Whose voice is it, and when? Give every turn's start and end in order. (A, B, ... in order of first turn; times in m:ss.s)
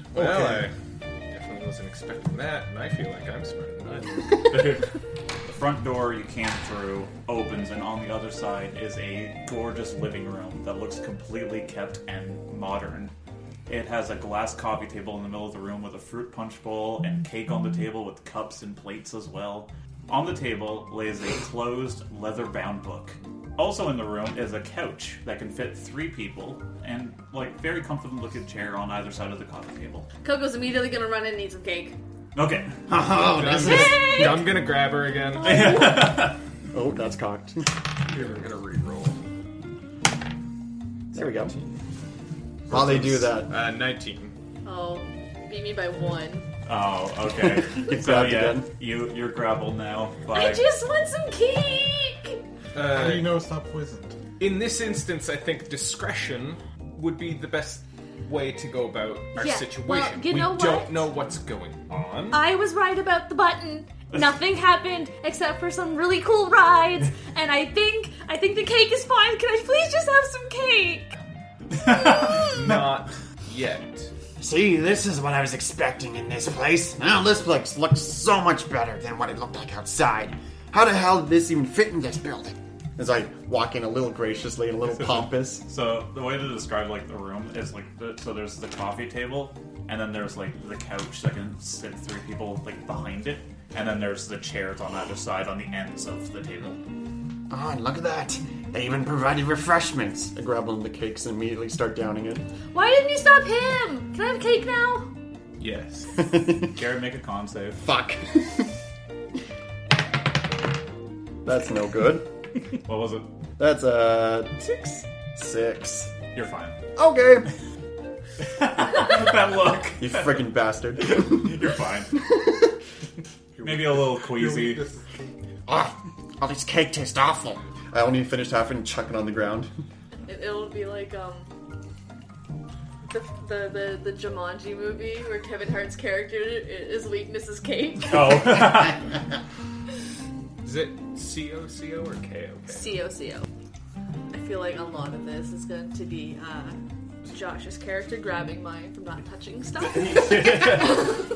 0:00.1-0:00.6 A
0:00.1-0:00.7 B
0:01.3-0:04.5 B
0:04.5-0:04.9 C
0:05.4-0:13.1 C
0:13.7-0:30.1 C
0:30.2-0:32.0 D
0:32.4-0:32.8 C
0:32.9-0:34.5 E
0:33.2-0:35.7 B
0:33.6-0:34.5 D
0:35.4-0:36.4 C
0:35.4-0:36.0 D
0:36.7-0:37.7 E
0:38.1-0:39.2 B
0:41.1-0:41.5 E
0:41.1-0:41.8 B
0:42.7-0:44.4 B
0:42.7-0:43.5 E
0:44.6-0:46.5 D
0:46.7-0:50.6 C
0:47.4-0:48.7 E
0:50.3-0:52.4 D
0:52.7-0:53.4 B
0:52.8-0:54.2 A
0:54.4-1:02.5 B
0:59.4-1:01.1 D
1:02.3-1:11.1 D
1:11.7-1:12.8 C
1:12.2-1:14.1 B
1:14.4-1:25.6 E
1:24.8-1:36.8 C
1:37.5-1:42.5 E
1:42.7-1:45.1 D
1:45.6-1:46.3 B
1:46.2-1:46.7 E
1:46.7-1:47.9 C
1:47.8-1:48.7 E
1:51.4-1:52.3 E
1:52.8-1:53.3 C
1:53.6-1:56.1 E
1:56.3-1:56.8 C
1:57.0-1:57.5 E
1:58.4-2:02.2 C
2:00.0-2:01.6 E
2:03.6-2:05.4 A
2:03.6-2:04.8 C
2:05.7-2:09.7 E
2:10.3-2:11.5 D
2:13.1-2:18.6 D
2:18.1-2:19.1 C
2:20.6-2:23.0 B
2:22.7-2:23.5 D
2:24.3-2:31.2 D
2:29.8-2:31.2 C